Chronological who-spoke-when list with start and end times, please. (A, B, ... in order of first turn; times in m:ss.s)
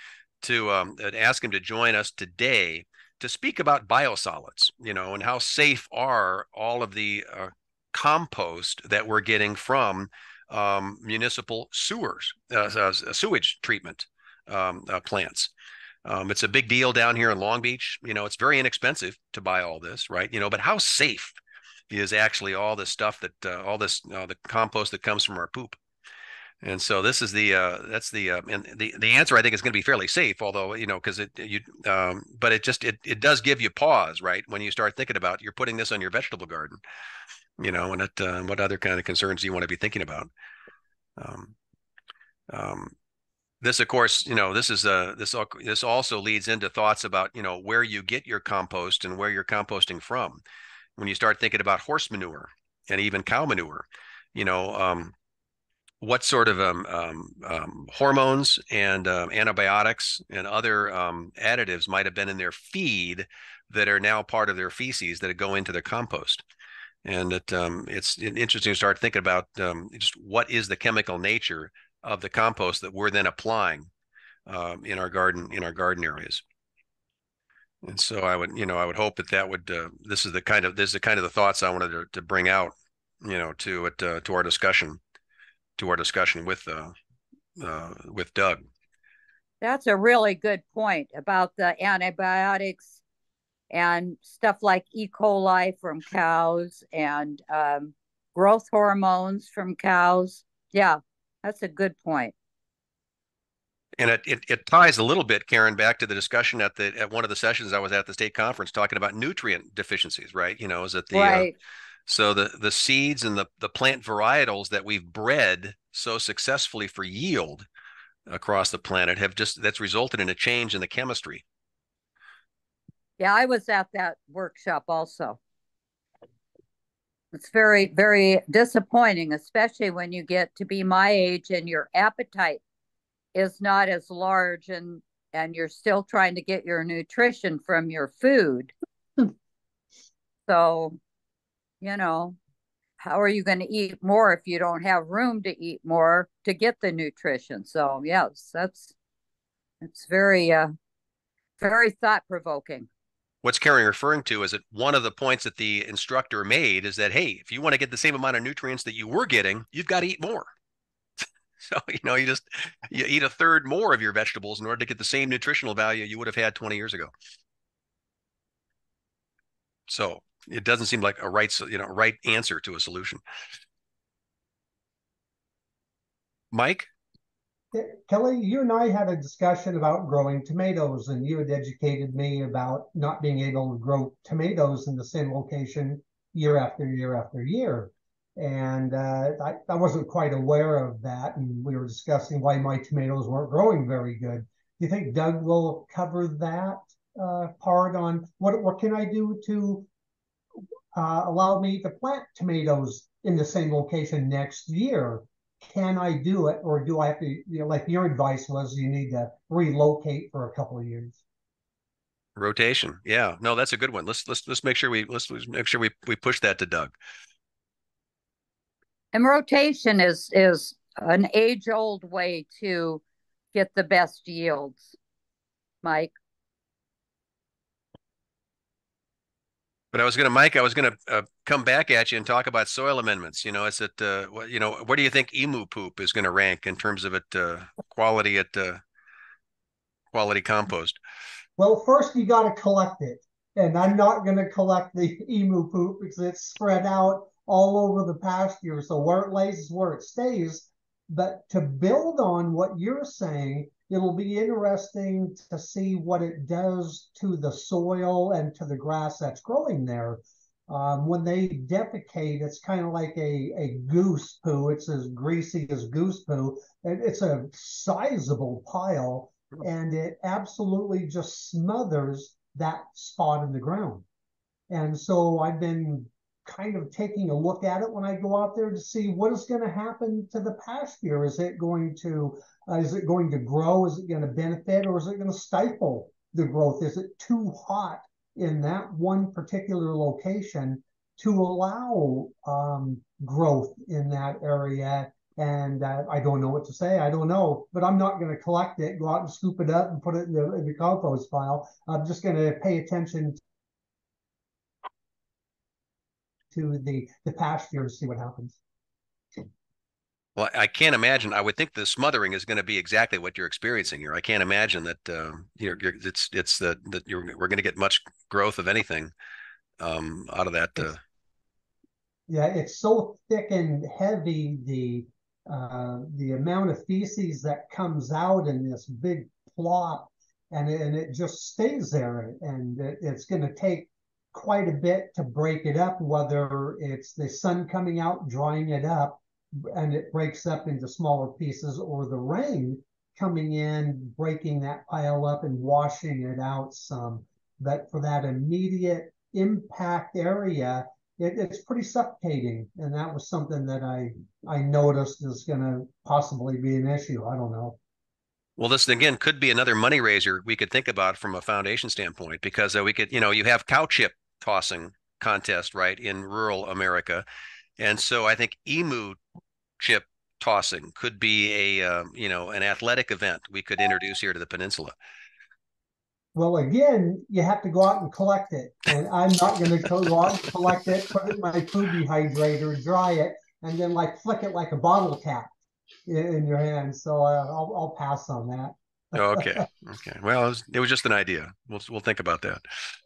0:00.4-0:15.5 A
0:16.0-0:21.4 A
0:21.9-0:25.8 A
0:26.6-0:36.8 A
0:37.6-0:40.3 A
0:41.2-0:41.5 A
0:42.5-0:42.9 A
0:43.6-0:50.4 A
0:51.0-0:55.1 A
0:56.0-1:06.4 A
1:07.0-1:13.9 A
1:14.5-1:16.4 A
1:17.8-1:25.0 A
1:25.8-1:26.9 A
1:27.6-1:28.6 A
1:29.6-1:32.9 B
1:33.7-1:42.3 B
1:44.0-1:51.5 A
1:51.1-1:51.5 B
1:52.1-1:57.6 A
1:58.3-2:01.4 A
2:03.2-2:05.4 B
2:07.3-2:12.6 B
2:13.3-2:18.7 B
2:20.5-2:21.0 B
2:21.8-2:22.4 B
2:23.0-2:28.9 B
2:29.8-2:30.7 B
2:31.6-2:32.8 B
2:33.4-2:40.5 A
2:41.6-2:47.1 A
2:49.9-2:53.2 A
2:56.5-2:56.9 A
2:57.7-3:19.9 C
3:20.9-3:31.2 C
3:32.4-3:37.0 A
3:39.1-3:43.0 B
3:43.5-3:44.9 B
3:45.8-3:46.1 B
3:49.9-3:58.8 A
4:00.1-4:01.0 A
4:01.6-4:34.0 C
4:34.7-5:03.4 C
5:06.5-5:08.6 C
5:10.4-5:19.1 A
5:19.8-5:21.0 A
5:22.3-5:57.8 C
5:58.6-6:07.2 A
6:07.8-6:09.2 A
6:09.8-6:15.0 A
6:16.3-6:25.5 C
6:26.0-6:29.6 C
6:29.1-6:32.6 A